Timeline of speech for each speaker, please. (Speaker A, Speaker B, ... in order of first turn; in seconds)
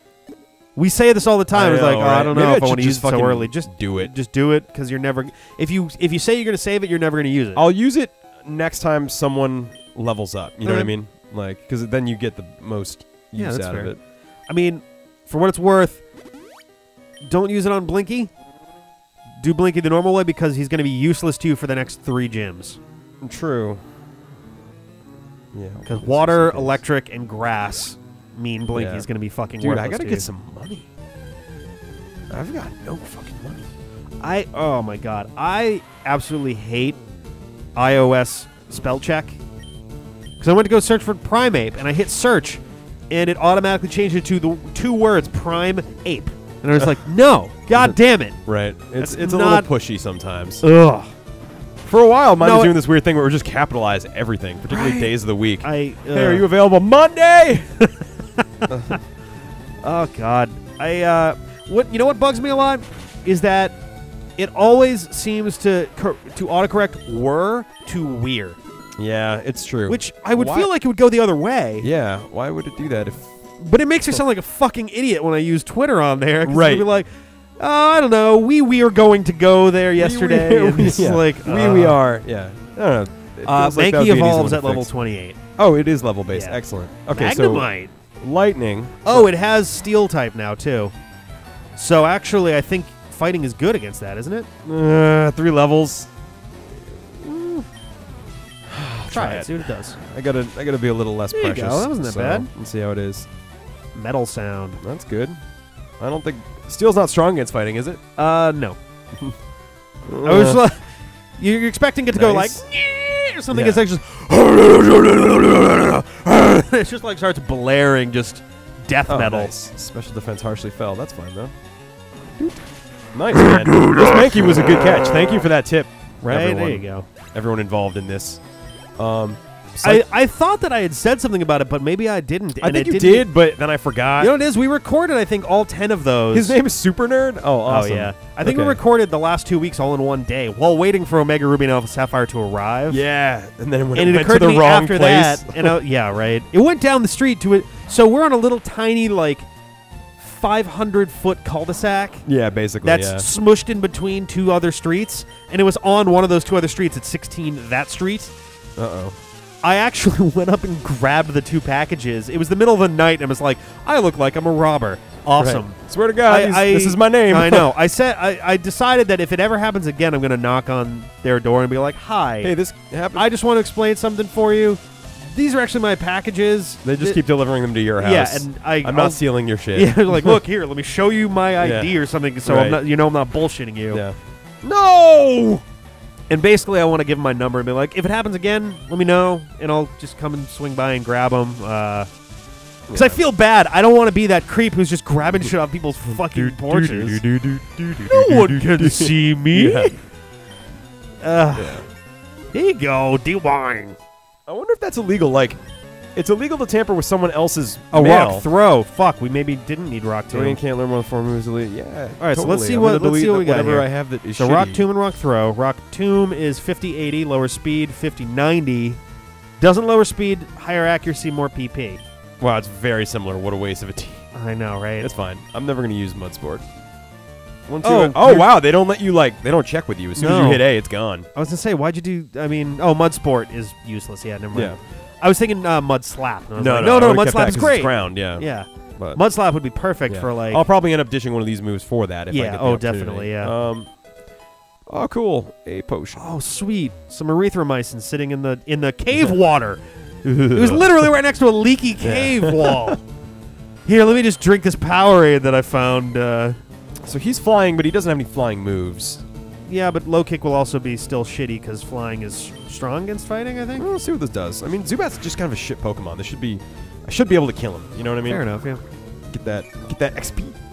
Speaker A: 0.8-7.6, 10.7-10.9, 13.3-13.9, 14.5-16.0, 17.3-18.3, 19.4-22.8, 25.9-30.3, 34.2-37.0, 37.8-39.4, 40.4-48.4, 49.0-49.7, 50.6-51.1, 52.4-52.7, 54.7-56.5, 58.6-59.0, 59.8-63.8, 64.4-68.6, 69.9-71.9, 73.6-77.1, 77.6-82.0, 83.5-85.4, 86.3-86.6, 87.1-87.9, 89.1-90.9, 91.8-94.5, 99.1-100.0, 101.3-102.5, 104.0-104.8, 108.2-108.8, 110.2-119.5, 123.5-124.0, 126.2-127.1, 129.8-133.3, 134.2-136.6, 137.7-143.0, 143.9-149.5, 150.2-152.2, 152.8-158.3, 159.6-172.5, 173.2-177.2, 178.0-184.0, 186.3-192.1, 192.9-197.2, 198.1-200.0, 201.2-201.8, 202.5-204.0, 207.9-210.6, 212.2-219.0, 219.6-222.0, 224.3-225.1, 227.8-228.5, 230.2-230.7, 231.3-240.7, 242.3-243.6, 246.2-249.8, 250.5-253.0, 253.9-256.6, 259.7-263.9, 268.3-268.8
Speaker B: 1.5-4.1, 7.5-14.0, 23.2-23.8, 25.5-26.8, 28.7-29.1, 29.6-30.9, 32.3-33.7, 47.8-50.6, 51.9-57.7, 58.7-59.0, 69.0-70.7, 71.8-73.3, 76.5-76.9, 80.0-84.9, 85.6-87.7, 88.2-89.3, 94.7-96.1, 97.2-97.7, 98.7-103.3, 104.8-105.4, 106.0-108.0, 110.1-110.6, 112.1-112.6, 113.5-113.8, 119.1-121.5, 123.1-128.4, 129.0-130.1, 132.6-134.3, 136.3-138.8, 142.9-145.8, 152.2-153.3, 158.8-159.2, 165.4-167.7, 172.4-173.3, 176.8-180.4, 181.6-181.9, 182.4-182.8, 183.9-185.6, 192.9-193.2, 196.1-199.9, 201.5-201.9, 204.5-205.6, 206.2-208.5, 210.3-214.8, 222.4-224.3, 225.0-226.7, 227.7-231.3, 236.6-238.4, 240.1-243.9, 244.9-246.2, 250.2-251.1, 252.0-253.0, 257.0-259.2, 263.8-268.4, 269.3-270.6